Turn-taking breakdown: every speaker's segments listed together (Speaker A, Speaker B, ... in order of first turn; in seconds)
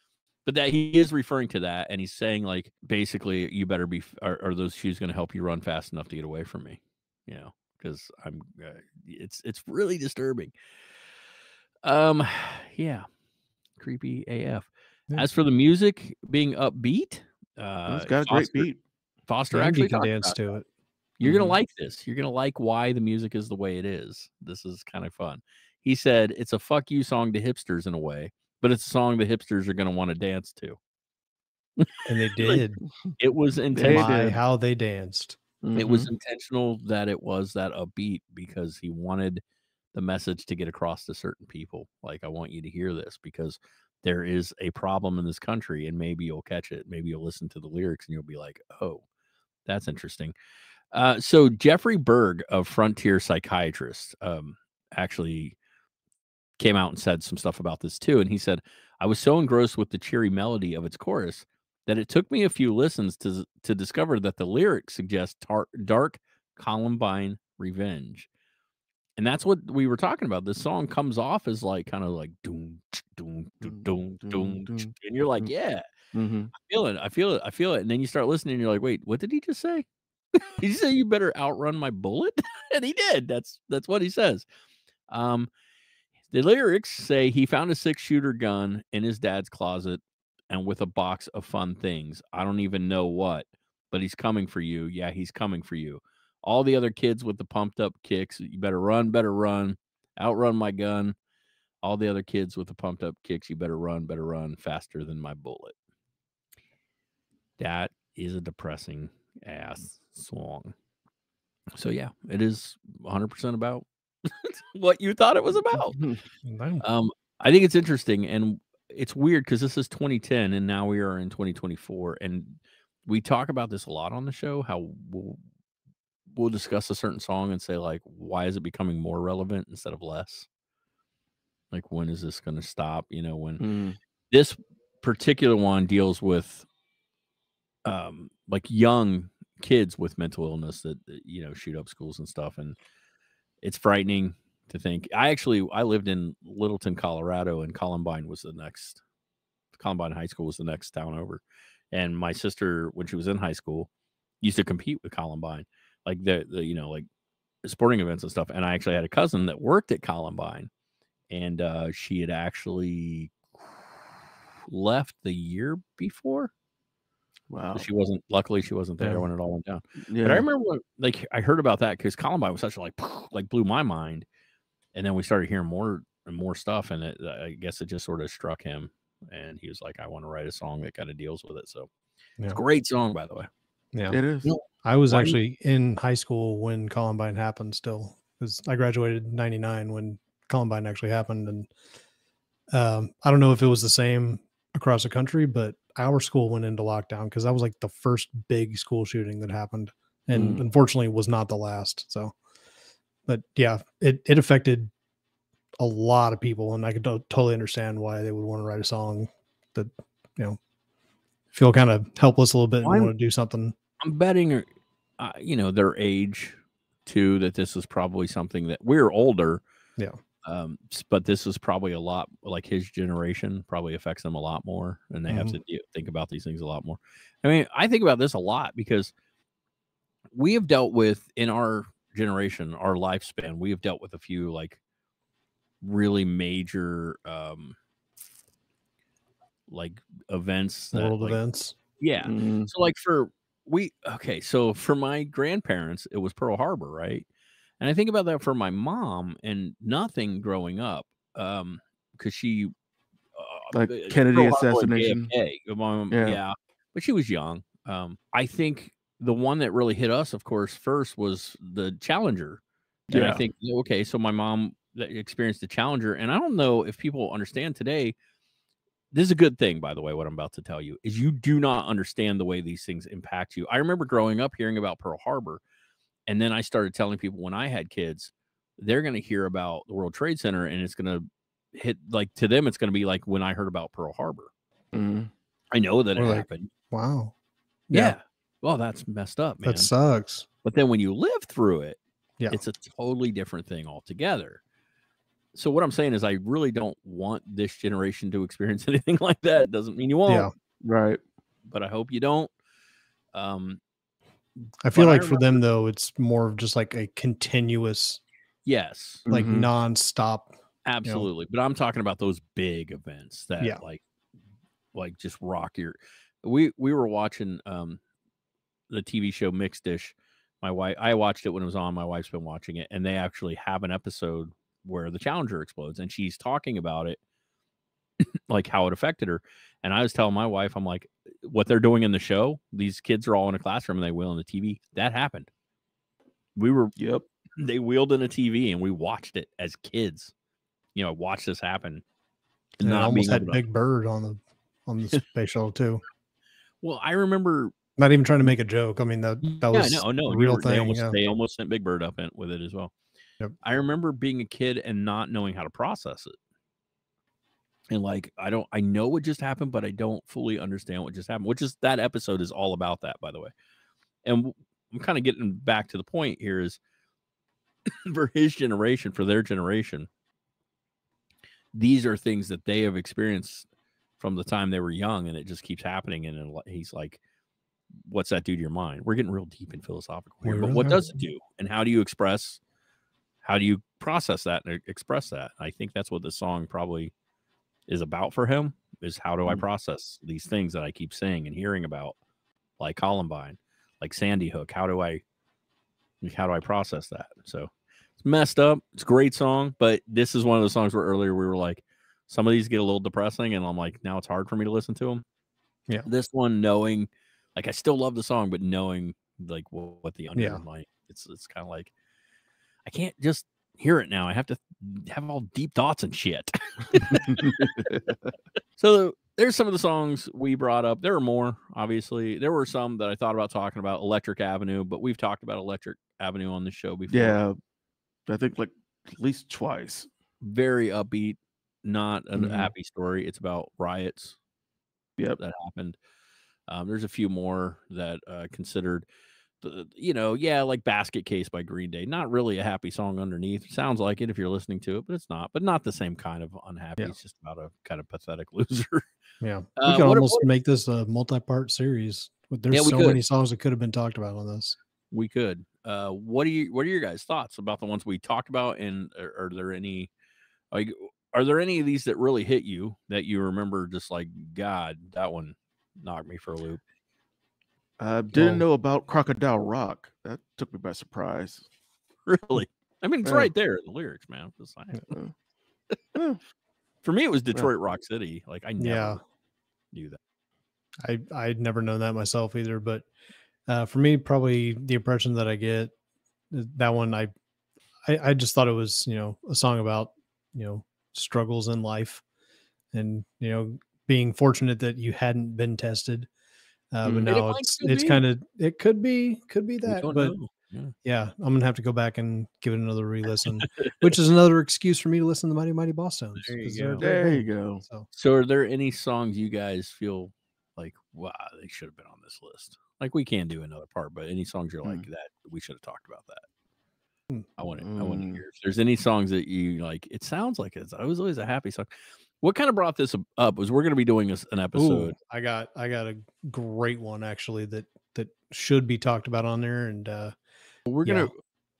Speaker A: 0.4-10.5, 11.8-13.1, 13.8-18.7, 19.3-20.4, 21.2-30.8, 31.8-32.6, 33.2-34.1, 35.8-39.4, 39.9-49.0, 49.6-50.3, 50.9-55.5, 56.6-68.3, 69.2-75.8, 76.5-84.5, 85.1-85.5, 86.3-101.2, 101.8-105.7, 107.6-110.7, 111.7-116.0, 116.8-125.4, 126.3-130.5, 131.7-133.6, 134.3-136.7, 137.8-142.8, 143.6-149.0, 149.7-153.9, 154.4-157.1, 157.6-160.7, 161.3-163.4, 164.7-166.5, 167.7-174.2, 174.9-181.9, 182.5-183.5, 184.4-185.4, 212.8-213.1, 214.0-214.7, 215.2-219.6, 220.4-229.1, 230.3-234.8, 235.8-237.8, 239.7-241.4, 242.0-247.2, 247.8-252.7, 253.3-262.6, 263.1-268.1, 269.1-275.6, 276.3-284.5, 285.7-286.7, 287.9-289.9, 290.6-294.6, 295.5-300.5, 301.7-302.5, 303.3-303.8, 304.9-305.6, 308.6-309.2, 310.8-314.0, 314.9-318.0, 318.9-327.2, 328.5-335.5, 336.6-336.9, 337.6-340.3, 340.9-342.0, 342.8-343.6, 346.8-347.7, 349.4-352.9, 353.6-356.4, 357.9-363.5, 364.2-366.8, 367.9-370.1, 371.7-373.7, 374.2-377.2, 378.0-382.6, 383.4-387.1, 387.9-392.1, 392.8-395.2, 396.2-405.2, 406.1-411.9, 412.8-417.9, 418.8-427.4, 430.4-434.4, 435.4-436.0, 436.7-439.1, 439.6-449.1, 449.8-450.5, 452.7-453.2, 455.1-460.1, 460.7-466.8, 472.3-475.1, 477.0-479.2, 479.9-480.2, 497.0-498.2, 499.9-500.9, 506.4-507.1, 508.1-516.5, 517.6-521.9, 522.4-525.1, 530.9-531.4
Speaker B: 17.9-18.8, 21.2-21.6, 33.7-34.4, 35.6-36.1, 73.7-75.5, 76.1-76.5, 115.7-116.2, 133.6-134.0, 167.5-167.8, 170.1-170.5, 184.1-184.5, 200.3-200.6, 242.2-242.7, 253.7-255.3, 256.1-256.4, 263.1-263.4, 284.9-285.3, 300.8-301.2, 309.2-309.7, 337.0-337.2, 417.3-418.1, 427.1-427.6, 428.3-430.1, 432.4-432.7, 468.0-471.7, 473.2-473.5, 476.1-476.4, 507.0-507.8, 517.8-518.4
Speaker C: 19.5-20.7, 32.0-32.8, 33.8-35.4, 116.4-116.8, 169.0-169.2, 184.8-191.7, 192.7-202.3, 203.3-204.9, 205.8-210.6, 211.5-213.7, 225.3-225.6, 240.9-241.8, 286.1-287.3, 287.9-288.1, 289.6-290.4, 300.2-300.5, 304.8-308.2, 309.3-311.3, 342.8-346.0, 348.0-351.1, 380.4-381.0, 410.4-410.6, 449.4-454.8, 468.3-468.6, 478.8-479.2, 481.0-483.1, 483.7-485.9, 486.5-487.3, 488.0-492.2, 492.9-496.3, 496.9-500.3, 501.0-508.1, 524.7-530.3, 531.0-531.3